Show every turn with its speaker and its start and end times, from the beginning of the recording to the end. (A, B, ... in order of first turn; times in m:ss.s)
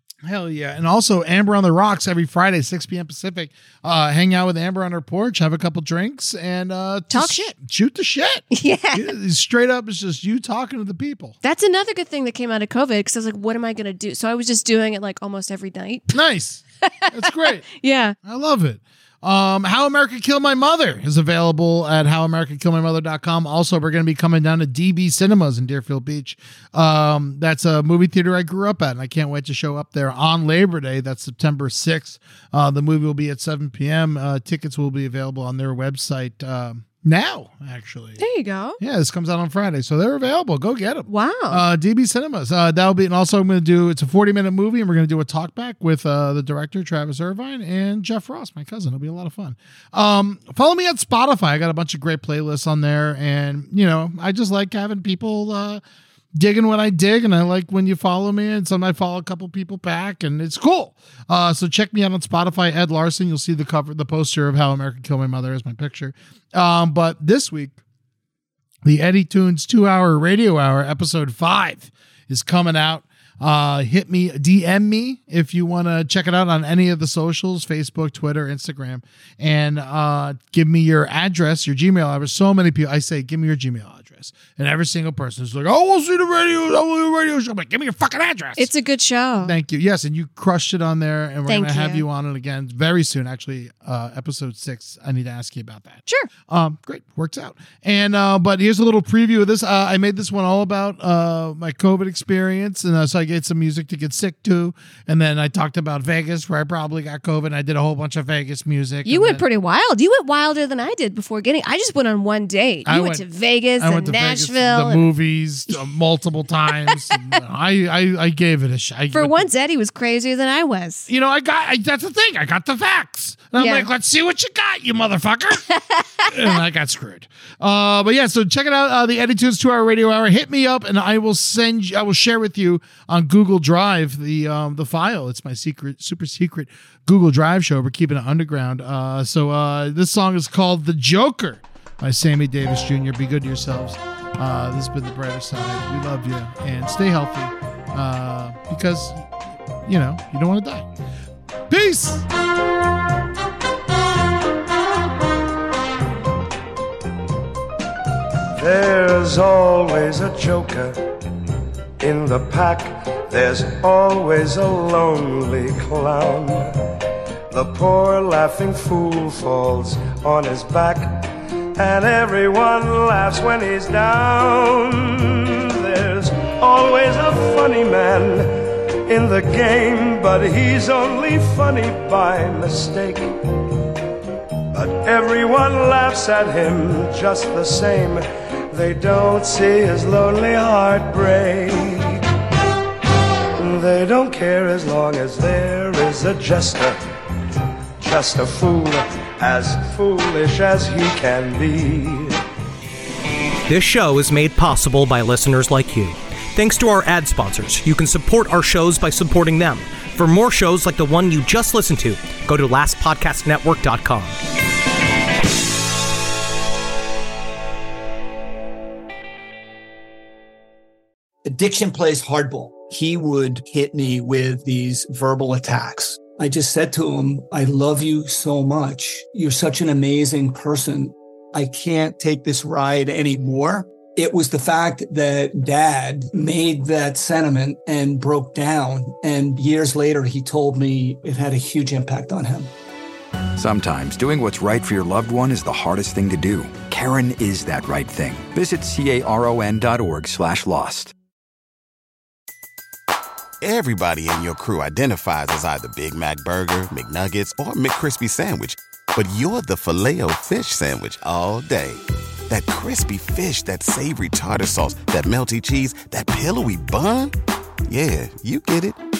0:00.2-0:11.4 A
0:07.1-0:07.5 B
0:08.5-0:09.1 B
0:11.4-0:16.1 B
0:16.1-0:17.7 A
0:16.9-0:18.2 B
0:18.2-0:38.2 A
0:38.2-0:38.8 B
0:38.8-0:55.8 A
0:41.1-0:41.6 B
0:56.3-1:07.8 A
1:08.8-1:28.7 A
1:28.6-1:29.5 B
1:29.4-1:49.4 A
1:31.5-1:32.0 B
1:49.1-1:55.1 B
1:52.9-1:53.3 A
1:53.8-1:59.5 A
1:56.9-1:57.4 B
1:59.1-2:01.1 B
2:01.1-2:05.7 A
2:03.6-2:03.9 B
2:05.7-2:06.6 B
2:06.2-2:29.3 A
2:29.8-2:30.9 A
2:31.7-2:32.3 A
2:38.6-2:41.0 C
2:42.0-2:46.8 C
2:47.5-3:03.4 C
3:04.7-3:12.2 C
3:13.6-3:17.0 C
3:18.0-3:22.4 C
3:23.7-3:34.4 D
3:41.4-4:02.7 E
4:03.6-4:11.1 F
4:13.6-4:27.3 G
4:27.9-4:29.0 G